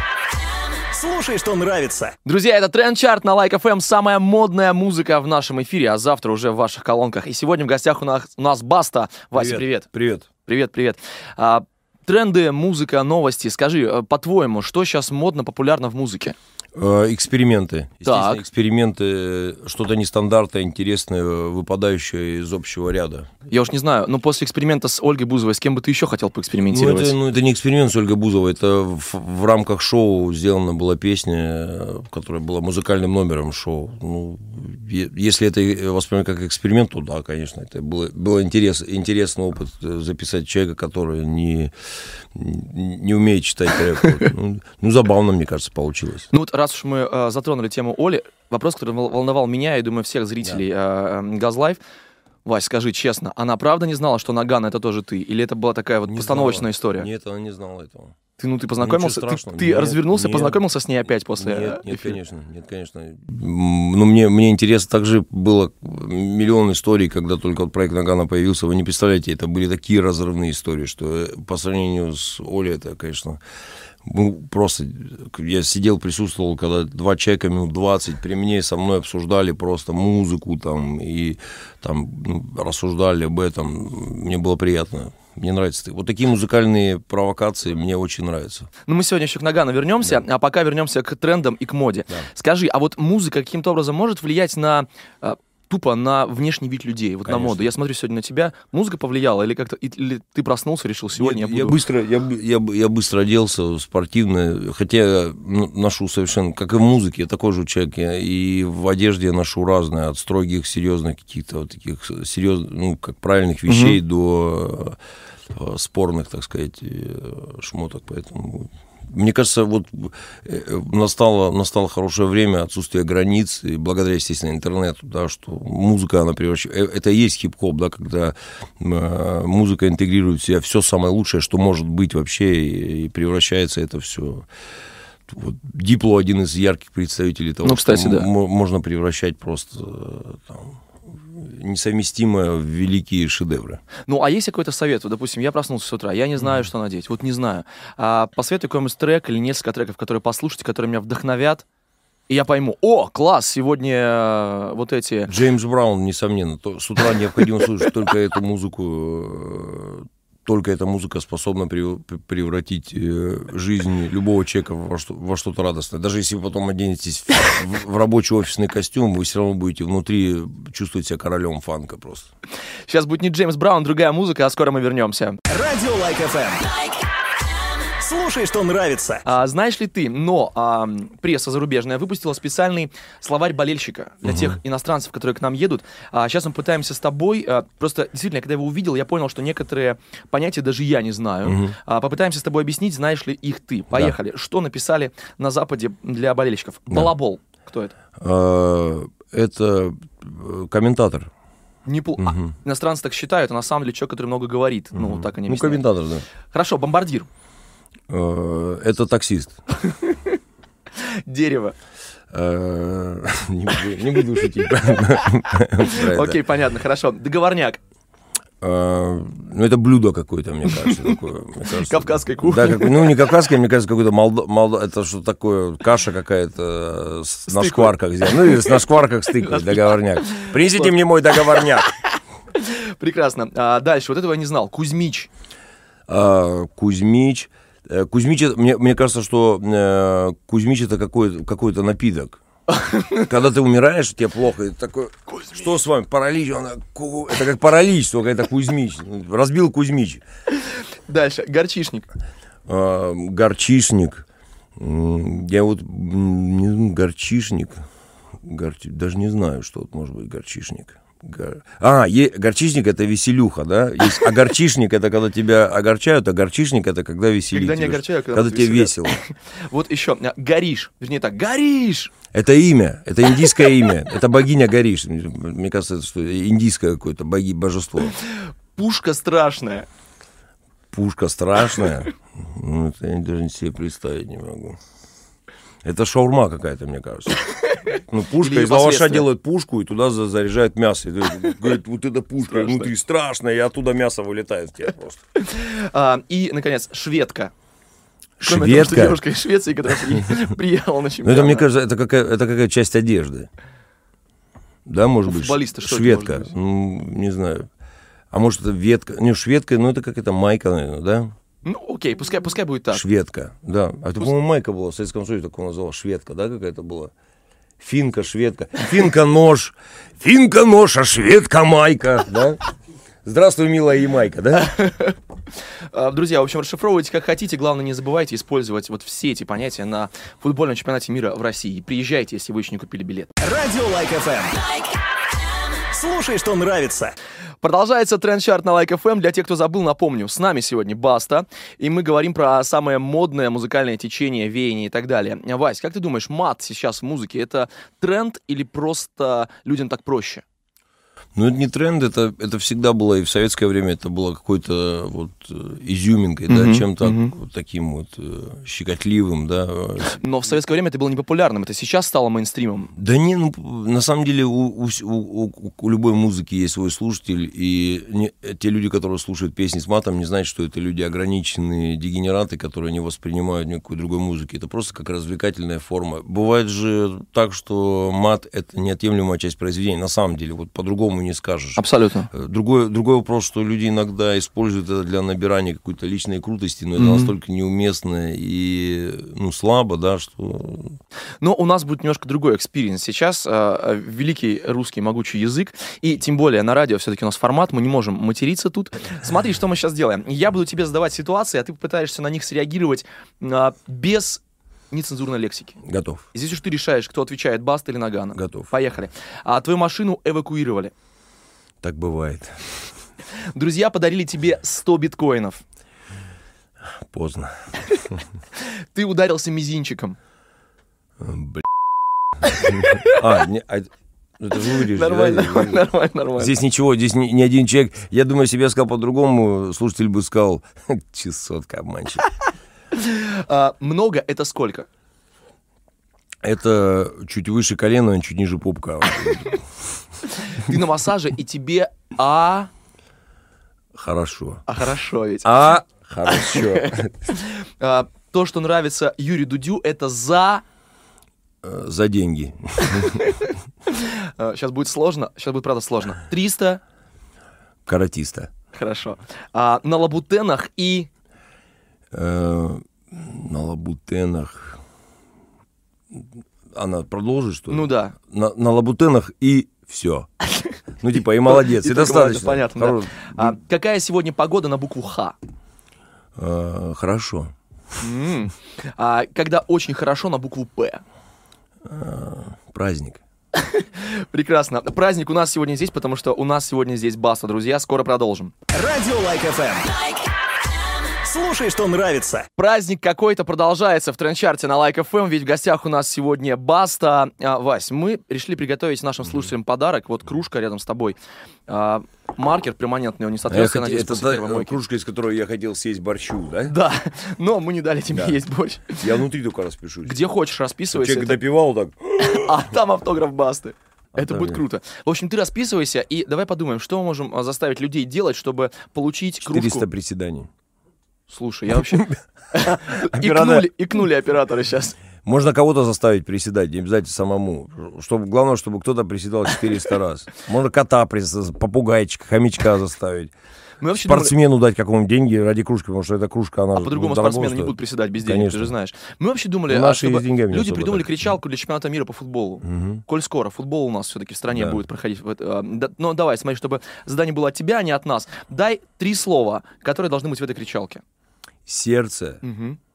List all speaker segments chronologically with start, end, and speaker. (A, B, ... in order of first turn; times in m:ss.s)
0:00.8-0:02.2 A
0:02.2-0:09.8 B
0:09.3-0:10.3 C
0:10.4-0:16.4 B
0:16.7-0:23.3 C
0:18.0-0:18.4 B
0:23.5-0:27.2 B
0:26.7-0:41.7 C
0:42.3-0:46.3 C
0:46.3-0:51.8 B
0:52.4-0:57.1 B
0:56.1-0:58.2 C
0:58.4-1:02.2 B
0:58.8-1:00.6 C
1:01.4-1:13.4 C
1:14.0-1:28.7 C
1:28.8-1:41.8 B
1:37.2-1:37.6 C
1:41.2-1:55.0 C
1:53.7-1:54.0 B
1:55.5-2:14.4 C
2:15.3-2:23.8 C
2:17.6-2:18.3 B
2:24.0-2:31.6 B
2:32.3-2:35.3 B
2:35.3-2:52.3 C
2:52.9-2:55.4 B
2:55.5-2:56.7 A
2:57.8-2:59.3 A
2:59.2-3:17.9 B
3:04.2-3:04.6 C
3:11.4-3:11.8 C
3:18.2-3:21.3 C
3:21.8-3:25.8 B
3:22.2-3:22.5 C
3:24.9-3:26.2 C
3:26.5-3:27.3 B
3:28.1-3:29.6 C
3:29.8-3:30.4 B
3:30.9-3:31.8 B
3:32.3-3:36.4 C
3:35.8-3:37.8 B
3:38.6-3:51.9 C
3:40.7-3:41.2 B
3:41.8-3:43.3 B
3:47.5-3:48.8 B
3:49.4-3:55.3 B
3:56.1-4:02.4 C
4:02.7-4:03.3 B
4:03.2-4:10.2 C
4:11.1-4:12.1 B
4:12.7-4:14.2 C
4:14.8-4:17.8 C
4:18.4-4:29.2 C
4:27.5-4:32.2 B
4:32.3-4:38.1 C
4:38.1-4:39.9 B
4:40.9-4:44.8 C
4:45.8-4:55.2 C
4:48.4-4:49.3 B
4:52.5-4:52.9 B
4:55.4-4:57.5 B
4:58.4-4:59.2 C
4:58.4-5:01.7 B
5:01.2-5:03.5 C
5:04.8-5:07.7 C
5:05.2-5:06.5 B
5:08.3-5:11.3 C
5:11.6-5:13.0 B
5:12.9-5:17.1 C
5:17.8-5:22.6 C
5:23.2-5:24.7 C
5:24.6-5:25.2 B
5:25.9-5:33.4 B
5:33.4-5:34.6 A
5:35.8-5:37.1 A
5:37.6-5:50.4 B
5:51.3-6:00.2 C
5:56.5-5:57.3 B
6:00.1-6:02.9 B
6:03.0-6:31.0 C
6:21.8-6:22.3 B
6:27.0-6:27.3 B
6:31.4-6:45.8 B
6:45.8-6:46.2 C
6:46.3-6:50.9 B
6:48.4-6:48.7 C
6:51.8-6:52.7 C
6:53.5-6:55.6 B
6:57.1-6:58.2 C
6:58.6-7:00.2 B
7:01.2-7:01.6 C
7:02.4-7:03.2 B
7:02.8-7:05.8 C
7:04.6-7:06.6 B
7:06.4-7:12.2 C
7:12.9-7:14.9 B
7:16.4-7:19.7 C
7:20.5-7:22.7 B
7:23.9-7:24.6 C
7:24.7-7:25.5 B
7:25.4-7:27.1 C
7:26.2-7:30.6 B
7:31.6-7:33.3 C
7:32.9-7:36.8 B
7:37.8-7:38.5 C
7:38.7-7:41.1 B
7:42.1-7:44.8 C
7:46.1-7:50.3 C
7:47.7-7:48.2 B
7:51.0-7:53.6 C
7:51.4-7:55.3 B
7:56.4-7:57.5 C
7:58.0-8:01.0 B
8:01.8-8:03.2 C
8:03.5-8:08.6 B
8:08.7-8:09.9 A
8:11.0-8:12.5 A
8:12.6-8:24.8 B
8:23.5-8:26.7 C
8:26.7-8:29.2 B
8:28.1-8:28.4 C
8:29.0-8:30.2 C
8:30.0-8:31.4 B
8:30.9-8:32.5 C
8:32.2-8:39.9 B
8:34.1-8:34.6 C
8:39.4-8:40.5 C
8:41.3-8:45.0 B
8:41.7-8:43.7 C
8:45.2-8:53.3 C
8:53.8-8:54.3 B
8:54.0-8:58.7 C
8:56.8-9:11.0 B
8:59.7-9:01.3 C
9:02.6-9:03.0 C
9:04.5-9:04.8 C
9:11.6-9:12.4 C
9:12.4-9:12.8 B